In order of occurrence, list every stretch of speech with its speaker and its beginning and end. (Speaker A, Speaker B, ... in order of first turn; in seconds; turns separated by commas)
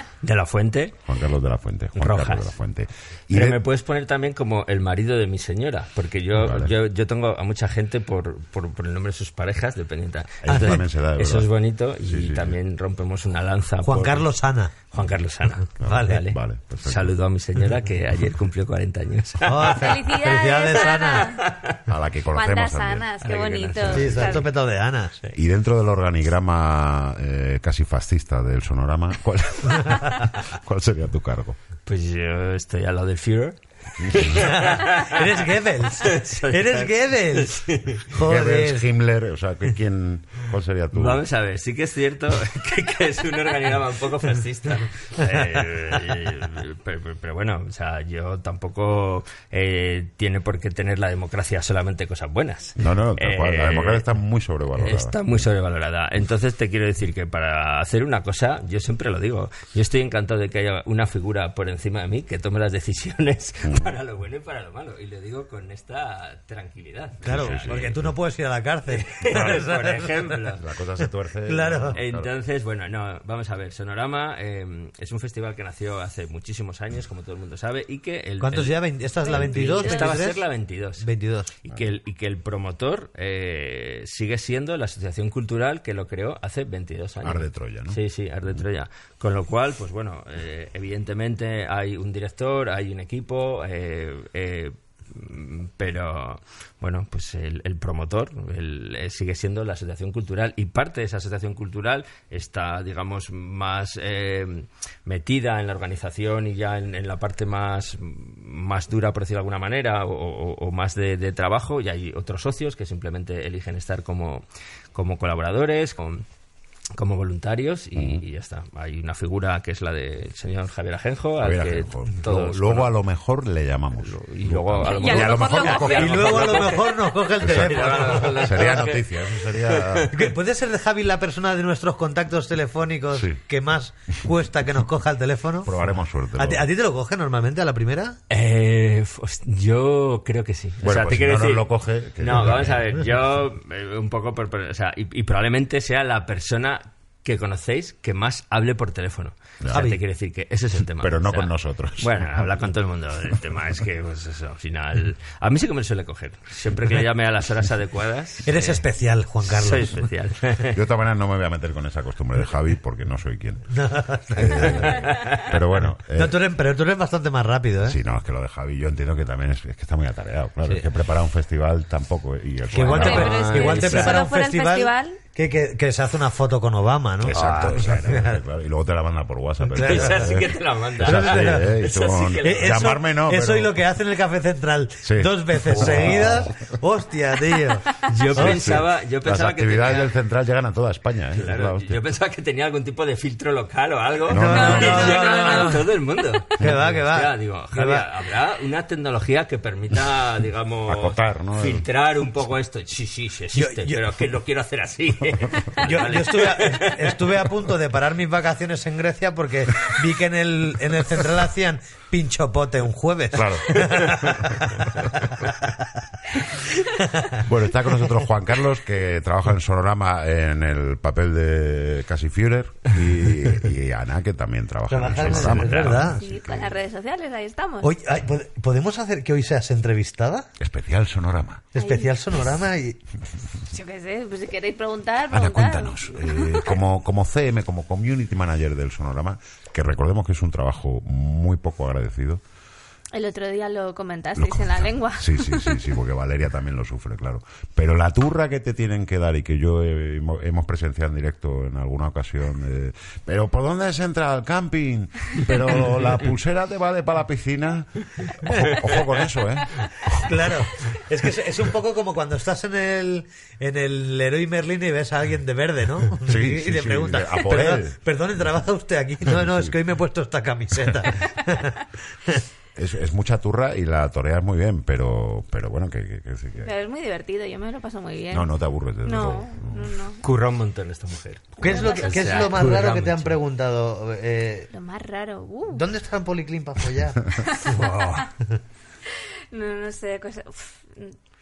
Speaker A: 0.2-1.0, Speaker B: 1.1-3.6, Speaker A: 2.0-2.5, Speaker A: 3.3-14.3, Speaker B: 6.3-6.7, Speaker B: 10.4-12.6, Speaker C: 13.8-14.7, Speaker A: 14.9-19.8, Speaker B: 15.8-17.1, Speaker C: 15.8-16.2, Speaker C: 19.4-21.2, Speaker D: 19.8-21.4, Speaker A: 21.1-21.8, Speaker B: 21.9-23.1, Speaker D: 22.3-24.5, Speaker A: 23.2-24.4, Speaker C: 23.9-25.2, Speaker B: 25.4-31.6, Speaker A: 31.9-35.3, Speaker B: 34.0-34.5, Speaker C: 34.3-38.8, Speaker A: 35.9-38.1, Speaker B: 38.2-41.2, Speaker A: 40.9-54.1, Speaker B: 52.8-55.4, Speaker A: 54.8-67.9, Speaker B: 63.6-63.9, Speaker B: 67.2-68.1, Speaker C: 67.2-70.3, Speaker A: 68.9-70.6, Speaker B: 70.6-72.3, Speaker C: 71.5-72.0, Speaker A: 71.9-81.1, Speaker C: 78.4-80.4, Speaker D: 79.2-80.2, Speaker C: 81.0-81.5, Speaker A: 81.6-116.2, Speaker B: 87.2-88.0, Speaker A: 117.0-122.9, Speaker B: 118.0-118.2, Speaker B: 121.4-126.7, Speaker A: 124.0-130.2, Speaker D: 124.8-127.0, Speaker C: 125.7-128.9, Speaker B: 127.4-130.3, Speaker C: 130.1-135.8, Speaker B: 133.1-133.4, Speaker B: 135.6-136.7, Speaker C: 136.4-138.2, Speaker A: 138.3-141.7, Speaker B: 140.8-142.9, Speaker A: 142.2-158.9, Speaker B: 149.6-149.9, Speaker C: 149.7-150.0, Speaker B: 151.0-152.7, Speaker B: 153.3-153.7, Speaker C: 158.4-160.0, Speaker A: 159.4-160.8, Speaker B: 160.7-163.7, Speaker C: 163.7-165.1, Speaker B: 164.3-166.4, Speaker A: 164.6-165.6, Speaker C: 166.1-168.0, Speaker B: 167.8-173.6, Speaker C: 172.7-178.4, Speaker D: 172.8-175.2, Speaker A: 172.9-174.2, Speaker B: 177.2-183.8, Speaker A: 177.3-178.0, Speaker C: 179.6-180.5, Speaker A: 179.8-182.8, Speaker C: 181.0-181.9, Speaker C: 182.4-188.6, Speaker B: 185.0-186.7, Speaker A: 188.1-190.1, Speaker B: 188.3-192.0, Speaker A: 191.3-207.5, Speaker B: 194.3-195.1, Speaker C: 194.3-195.8, Speaker D: 194.4-195.9, Speaker C: 196.6-198.1, Speaker B: 196.6-196.9, Speaker B: 200.9-201.9, Speaker C: 203.5-204.0, Speaker C: 205.8-215.7, Speaker B: 213.3-214.8, Speaker C: 217.2-217.4, Speaker B: 217.4-226.7, Speaker C: 224.9-226.2, Speaker A: 225.2-225.9, Speaker D: 225.9-227.9, Speaker C: 227.8-230.5, Speaker B: 230.6-231.7, Speaker C: 231.7-233.0, Speaker D: 231.8-232.1, Speaker D: 233.7-236.8, Speaker B: 235.3-242.4, Speaker D: 243.1-245.9, Speaker B: 244.4-260.6, Speaker A: 258.5-259.0, Speaker C: 260.2-272.4, Speaker B: 266.2-268.0, Speaker B: 269.3-269.7, Speaker B: 272.8-276.7, Speaker D: 276.6-278.5, Speaker B: 278.3-280.0, Speaker D: 279.0-280.2, Speaker A: 280.2-283.4, Speaker C: 281.6-284.7, Speaker D: 281.6-282.6, Speaker D: 284.7-285.9, Speaker C: 285.7-288.2, Speaker D: 287.4-287.7, Speaker A: 287.6-288.3, Speaker D: 289.1-291.1